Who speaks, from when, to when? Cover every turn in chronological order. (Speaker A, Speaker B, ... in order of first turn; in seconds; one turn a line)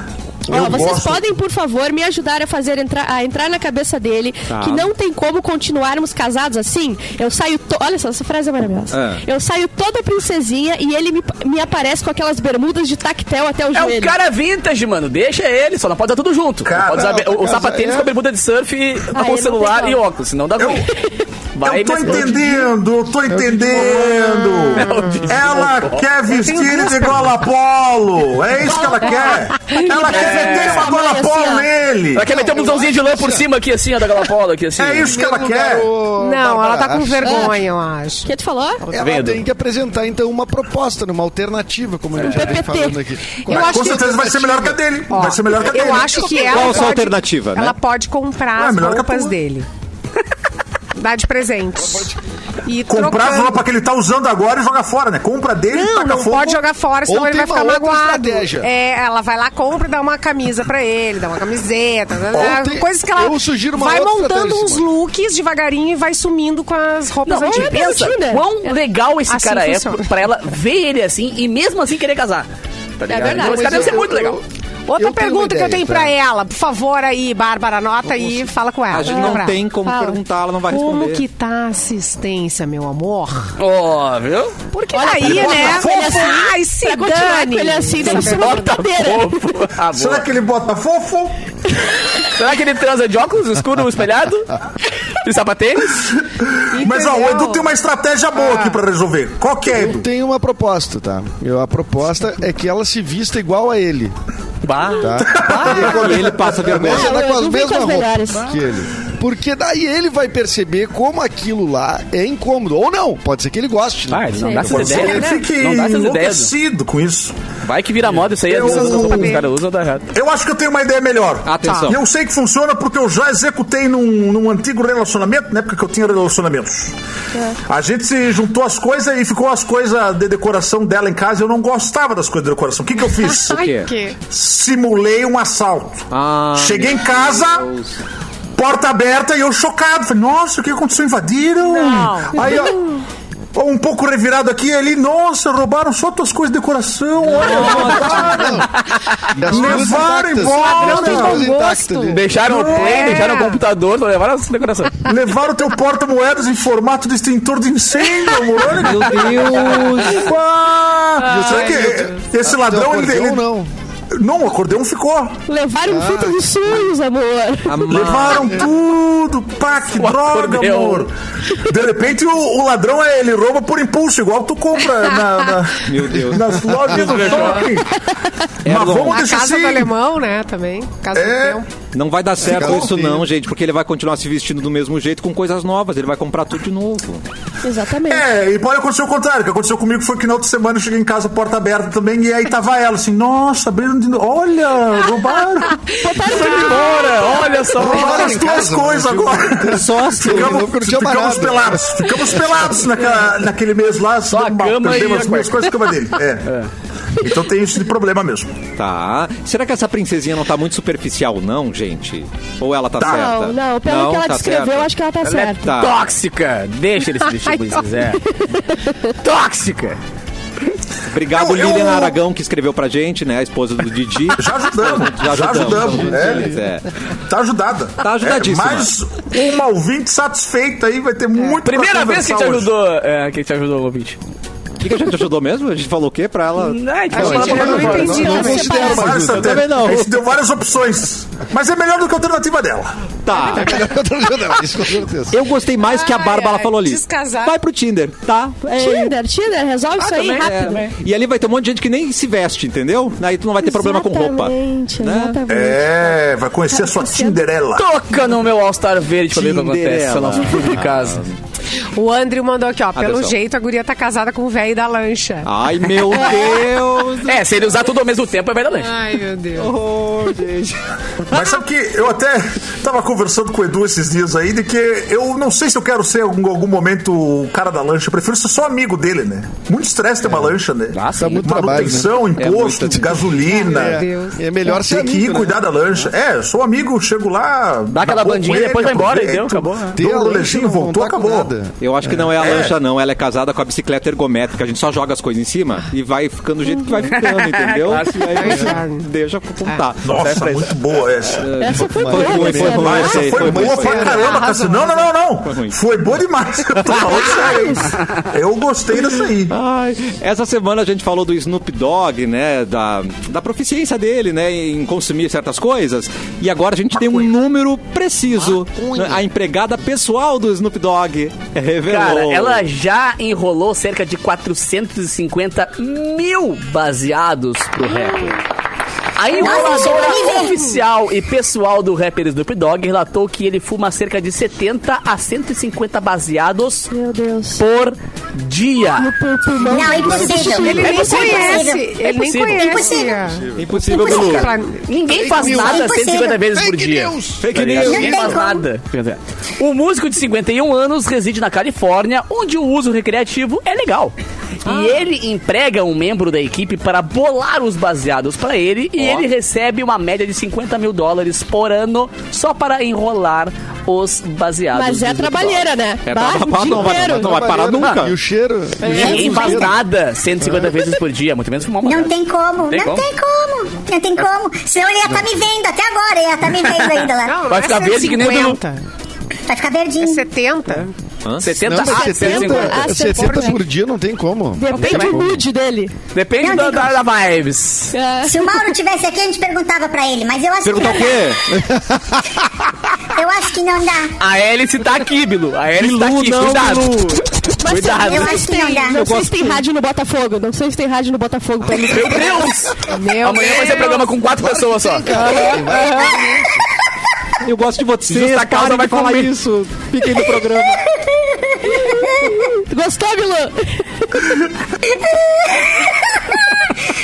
Speaker A: 0.5-1.0
Speaker B: 0.5-1.3
Speaker C: 0.5-14.2
Speaker D: 4.5-4.9
Speaker D: 8.9-9.2
Speaker E: 13.7-20.9
Speaker B: 16.6-17.2
Speaker A: 16.9-18.1
Speaker C: 19.1-20.0
Speaker B: 20.6-20.9
Speaker E: 21.6-22.5
Speaker B: 21.6-32.3
Speaker A: 23.3-24.0
Speaker E: 24.8-26.1
Speaker F: 24.8-25.2
Speaker F: 26.3-27.3
Speaker C: 28.6-31.7
Speaker E: 30.0-31.0
Speaker E: 32.1-35.1
Speaker A: 32.3-33.5
Speaker B: 34.8-35.9
Speaker A: 35.0-37.6
Speaker F: 36.2-38.3
Speaker C: 37.2-37.6
Speaker C: 38.2-38.8
Speaker A: 38.9-44.7
Speaker E: 39.0-39.4
Speaker E: 42.2-42.6
Speaker C: 42.2-43.0
Speaker F: 43.5-44.3
Speaker B: 43.5-46.9
Speaker F: 45.1-49.7
Speaker D: 46.4-47.8
Speaker B: 48.5-49.3
Speaker F: 51.0-52.1
Speaker A: 51.8-52.2
Speaker F: 52.6-53.6
Speaker B: 52.9-56.6
Speaker F: 55.7-68.1
Speaker A: 57.1-58.7
Speaker A: 62.3-64.9
Speaker E: 67.3-72.5
Speaker C: 67.4-68.7
Speaker F: 69.3-70.1
Speaker E: 73.0-74.4
Speaker C: 73.1-74.0
Speaker A: 73.3-76.2
Speaker F: 74.9-83.5
Speaker D: 78.9-81.2
Speaker E: 83.6-84.8
Speaker F: 84.7-88.8
Speaker C: 84.9-89.4
Speaker E: 88.0-90.3
Speaker B: 89.9-91.4
Speaker E: 92.2-94.5
Speaker E: 95.2-96.2
Speaker F: 96.7-97.7
Speaker B: 96.8-100.1
Speaker F: 98.4-98.8
Speaker A: 99.7-104.2
Speaker E: 104.6-105.2
Speaker A: 105.0-115.0
Speaker B: 105.2-106.8
Speaker D: 105.5-107.2
Speaker C: 106.8-108.5
Speaker E: 114.1-116.5
Speaker C: 114.3-115.3
Speaker B: 114.7-117.4
Speaker E: 117.6-120.1
Speaker B: 118.4-119.4
Speaker F: 118.5-119.5
Speaker B: 120.1-126.9
Speaker D: 121.5-122.0
Speaker F: 121.6-121.9
Speaker B: 127.7-133.6
Speaker D: 133.5-133.9
Speaker F: 133.5-134.2
Speaker B: 134.3-137.7
Speaker D: 136.1-138.0
Speaker B: 138.6-142.8
Speaker F: 141.6-142.7
Speaker B: 143.5-148.7
Speaker D: 147.3-148.6
Speaker A: 147.6-148.7
Speaker A: 149.3-152.4
Speaker B: 149.4-151.5
Speaker F: 149.6-149.9
Speaker F: 150.5-153.6
Speaker E: 152.1-155.1
Speaker B: 152.4-153.2
Speaker B: 155.1-163.4
Speaker D: 158.8-160.3
Speaker A: 161.2-163.7
Speaker F: 161.2-161.9
Speaker B: 164.1-165.4
Speaker C: 165.5-168.0
Speaker A: 165.9-166.8
Speaker D: 167.7-168.6
Speaker B: 167.9-177.9
Speaker E: 169.9-171.1
Speaker D: 175.8-177.7
Speaker E: 176.9-177.7
Speaker D: 178.6-179.3
Speaker B: 178.6-179.9
Speaker F: 179.1-181.7
Speaker B: 181.1-181.6
Speaker D: 181.9-187.2
Speaker A: 182.4-183.3
Speaker B: 182.4-182.9
Speaker C: 187.6-188.3
Speaker B: 188.1-195.8
Speaker C: 195.9-197.7
Speaker E: 196.2-198.3
Speaker A: 197.8-202.0
Speaker B: 197.9-206.5
Speaker D: 199.7-200.7
Speaker E: 204.3-205.8
Speaker E: 206.4-206.7
Speaker B: 207.2-208.6
Speaker D: 208.8-214.9
Speaker B: 213.0-213.3
Speaker C: 213.0-215.8
Speaker E: 215.2-218.2
Speaker D: 215.6-215.9
Speaker C: 218.4-219.1
Speaker E: 219.2-220.0
Speaker D: 221.1-226.9
Speaker B: 221.3-222.2
Speaker B: 224.4-226.6
Speaker A: 225.7-226.6
Speaker B: 227.3-232.7
Speaker D: 228.0-228.9
Speaker E: 231.6-234.2
Speaker D: 234.8-236.8
Speaker E: 236.6-238.5
Speaker A: 237.1-239.6
Speaker F: 237.2-239.1
Speaker C: 237.3-239.3
Speaker B: 238.6-243.1
Speaker D: 239.4-240.2
Speaker D: 243.2-243.8
Speaker A: 243.5-245.4
Speaker D: 245.3-249.2
Speaker F: 245.8-247.6
Speaker C: 248.8-250.8
Speaker E: 250.0-250.9
Speaker D: 250.2-255.4
Speaker C: 253.6-256.0
Speaker B: 255.5-257.9
Speaker C: 256.7-257.5
Speaker E: 257.8-261.2
Speaker D: 259.3-261.4
Speaker F: 261.9-265.5
Speaker D: 262.9-263.4
Speaker D: 265.4-267.4
Speaker E: 267.2-268.9
Speaker F: 268.8-269.7
Speaker D: 269.6-271.5
Speaker B: 271.3-284.1
Speaker E: 280.9-281.8
Speaker A: 281.2-282.1
Speaker D: 282.4-283.3
Speaker F: 283.4-284.4
Speaker A: 283.6-285.6
Speaker B: 284.7-291.5
Speaker E: 287.9-290.0
Speaker A: 289.9-292.4
Speaker D: 291.8-300.7
Speaker B: 292.4-292.8
Speaker E: 297.1-298.7
Speaker F: 298.3-299.1
Speaker B: 300.0-301.5
Speaker E: 300.2-300.6
Speaker D: 301.4-304.3
Speaker C: 301.6-303.2
Speaker A: 301.9-304.4
Speaker B: 302.7-309.5
Speaker F: 303.9-305.1
Speaker D: 305.5-305.8
Speaker D: 309.5-322.7
Speaker A: 318.5-319.2
Speaker E: 321.9-328.4
Speaker E: 329.2-336.9
Speaker G: 329.3-330.7
Speaker C: 336.9-337.6
Speaker E: 337.6-339.1
Speaker C: 338.8-341.7
Speaker G: 339.6-341.9
Speaker F: 340.3-344.9
Speaker E: 342.0-342.9
Speaker G: 342.5-343.2
Speaker A: 343.1-343.9
Speaker D: 343.6-344.6
Speaker G: 343.9-344.4
Speaker E: 344.9-365.7
Speaker A: 345.1-348.4
Speaker G: 345.3-346.4
Speaker D: 347.4-348.2
Speaker G: 347.8-348.7
Speaker D: 359.0-359.3
Speaker C: 364.7-367.4
Speaker D: 366.1-368.1
Speaker A: 367.0-369.8
Speaker E: 368.8-372.1
Speaker F: 368.9-369.6
Speaker A: 370.4-370.8
Speaker G: 371.8-377.4
Speaker E: 372.7-373.1
Speaker A: 375.1-375.4
Speaker E: 376.8-378.6
Speaker F: 377.2-378.8
Speaker G: 379.5-380.2
Speaker F: 380.0-380.9
Speaker E: 381.4-382.9
Speaker A: 381.6-385.4
Speaker C: 381.8-383.6
Speaker F: 383.2-383.5
Speaker C: 384.6-386.0
Speaker E: 384.8-385.1
Speaker E: 386.1-388.0
Speaker G: 386.4-387.0
Speaker C: 387.9-388.7
Speaker G: 388.2-391.3
Speaker D: 390.6-391.4
Speaker A: 391.5-392.2
Speaker G: 393.1-394.1
Speaker E: 394.2-398.4
Speaker D: 395.8-397.2
Speaker C: 397.6-402.5
Speaker G: 397.9-399.1
Speaker D: 398.9-399.6
Speaker E: 401.6-405.3
Speaker F: 402.8-404.1
Speaker A: 404.4-406.7
Speaker F: 405.2-405.6
Speaker D: 407.4-410.8
Speaker E: 408.1-409.3
Speaker G: 410.4-412.3
Speaker C: 411.8-414.4
Speaker G: 414.9-416.7